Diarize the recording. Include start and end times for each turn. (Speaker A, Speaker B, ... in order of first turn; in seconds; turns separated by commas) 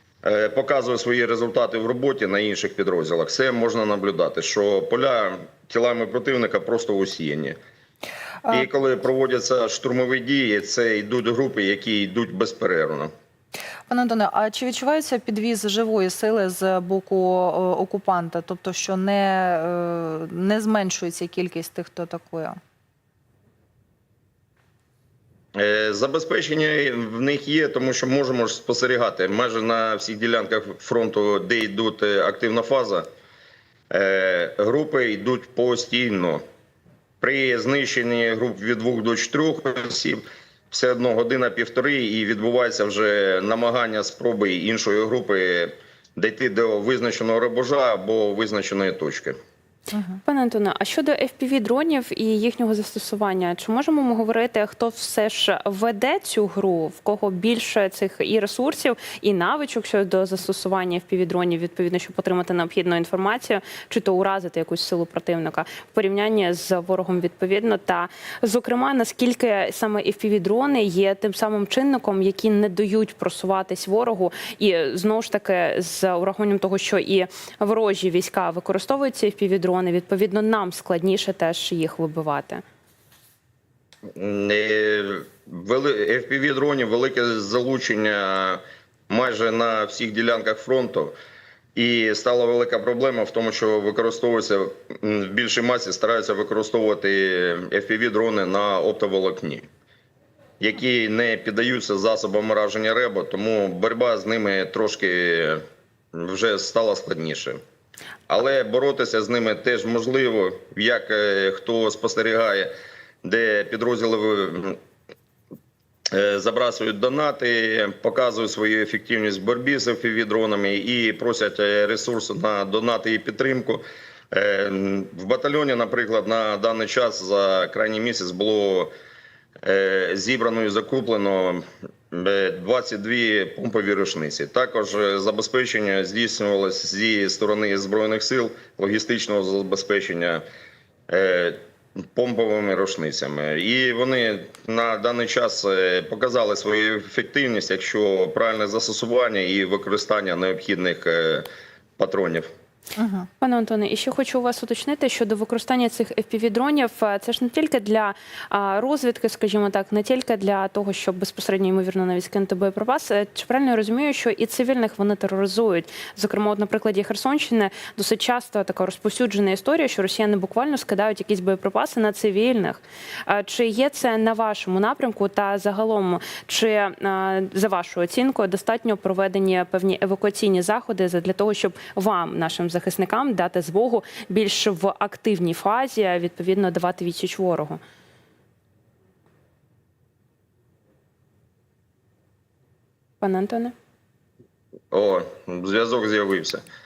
Speaker A: 0.2-7.6, Speaker A: 8.5-13.1, Speaker B: 13.9-22.6, Speaker A: 25.6-33.1, Speaker A: 33.9-36.4, Speaker A: 37.2-49.4, Speaker B: 49.9-50.2, Speaker C: 50.3-82.6, Speaker A: 84.2-91.2, Speaker A: 91.8-99.7, Speaker A: 100.6-105.6, Speaker A: 106.1-107.6, Speaker A: 108.3-112.7, Speaker A: 113.2-114.8, Speaker A: 116.1-128.9, Speaker A: 129.6-140.4, Speaker A: 141.1-141.6, Speaker A: 142.1-152.5, Speaker B: 153.0-153.3, Speaker C: 153.4-187.8, Speaker C: 193.2-193.7, Speaker A: 194.9-196.6